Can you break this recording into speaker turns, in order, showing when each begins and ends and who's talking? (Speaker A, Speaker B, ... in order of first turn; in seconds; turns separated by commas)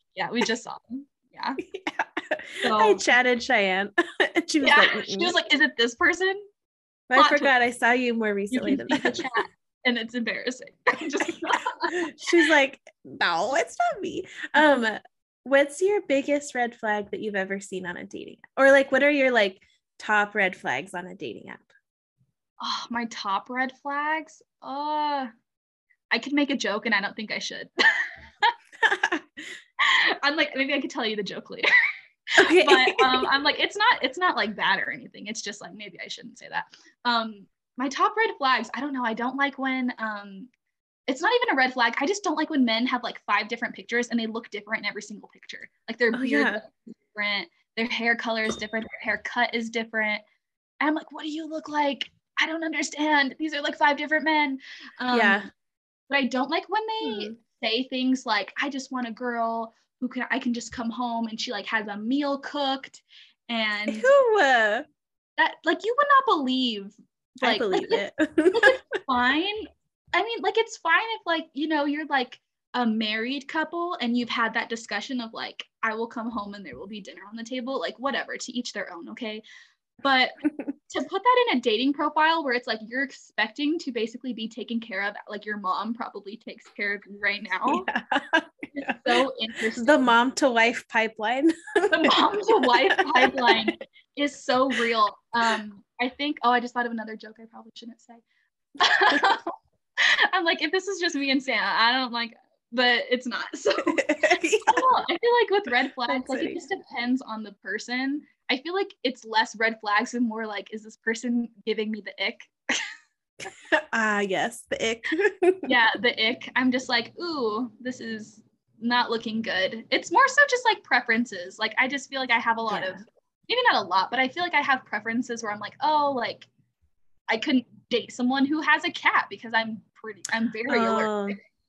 Speaker A: 0.1-1.6, Speaker B: 1.6-5.3, Speaker A: 2.6-3.0, Speaker A: 4.6-6.4, Speaker B: 7.1-9.4, Speaker A: 7.1-7.5, Speaker A: 8.5-12.5, Speaker B: 11.9-21.7, Speaker A: 22.6-25.3, Speaker A: 26.1-28.5, Speaker B: 28.8-29.4, Speaker A: 29.8-31.7, Speaker A: 32.4-40.5, Speaker B: 32.4-33.3, Speaker A: 41.1-50.2, Speaker B: 46.1-46.6, Speaker A: 50.8-55.4, Speaker B: 55.1-55.5, Speaker A: 56.1-64.1, Speaker B: 57.0-57.3, Speaker B: 63.9-64.8, Speaker A: 65.4-79.4, Speaker B: 67.4-68.8, Speaker A: 80.0-80.4, Speaker A: 80.9-87.9, Speaker B: 87.7-89.1, Speaker A: 88.7-90.1, Speaker B: 89.8-93.7, Speaker A: 91.9-98.2, Speaker A: 98.8-112.8, Speaker B: 103.8-104.9, Speaker B: 106.0-106.6, Speaker B: 113.6-115.7, Speaker A: 115.6-126.5, Speaker B: 122.7-123.0, Speaker A: 127.3-131.4, Speaker B: 130.7-131.4